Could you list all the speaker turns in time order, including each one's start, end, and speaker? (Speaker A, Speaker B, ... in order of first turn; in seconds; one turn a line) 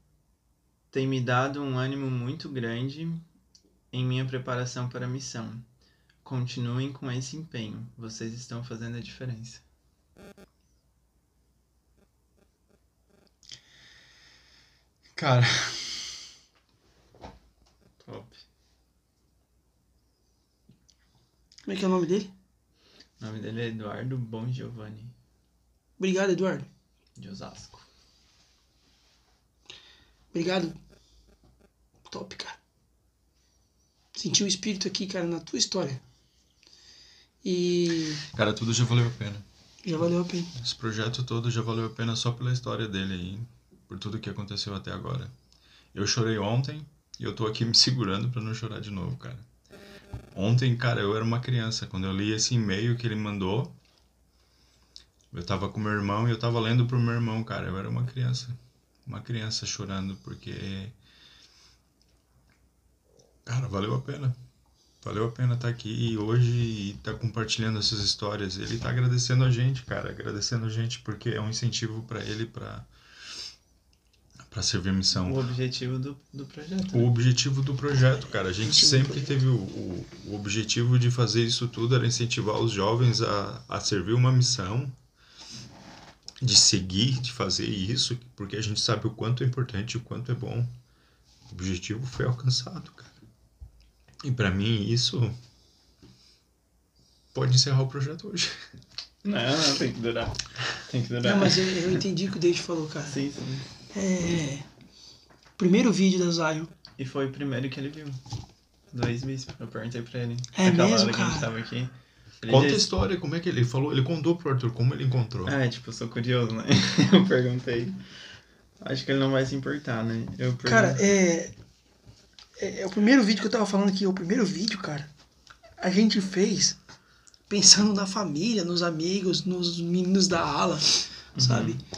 Speaker A: 0.9-3.2
Speaker A: 3.9-5.6
Speaker A: 6.2-9.6
Speaker B: 15.2-16.1
Speaker A: 18.0-18.4
Speaker C: 21.6-22.3
Speaker A: 23.2-25.1
Speaker C: 26.0-26.7
Speaker A: 27.2-27.8
Speaker C: 30.3-30.8
Speaker C: 32.0-32.6
Speaker C: 34.1-36.0
Speaker C: 37.4-38.2
Speaker B: 38.2-39.4
Speaker C: 39.8-40.5
Speaker B: 40.6-45.3
Speaker B: 45.9-49.5
Speaker B: 50.3-53.7
Speaker B: 55.3-58.5
Speaker B: 59.0-60.9
Speaker B: 63.5-64.3
Speaker B: 65.0-72.9
Speaker B: 74.5-75.4
Speaker A: 75.2-77.1
Speaker B: 76.9-84.9
Speaker C: 78.6-79.3
Speaker B: 86.4-90.7
Speaker B: 91.5-93.2
Speaker B: 94.2-95.3
Speaker B: 97.3-98.6
Speaker A: 99.2-102.0
Speaker C: 101.2-103.2
Speaker A: 103.0-103.7
Speaker C: 103.9-104.7
Speaker C: 105.6-106.7
Speaker A: 107.0-108.2
Speaker A: 108.9-112.9
Speaker C: 110.5-111.5
Speaker B: 112.5-115.5
Speaker A: 115.5-118.0
Speaker A: 118.8-121.0
Speaker C: 120.6-121.5
Speaker C: 122.6-125.1
Speaker C: 125.8-126.8
Speaker C: 127.5-131.8
Speaker A: 131.3-131.8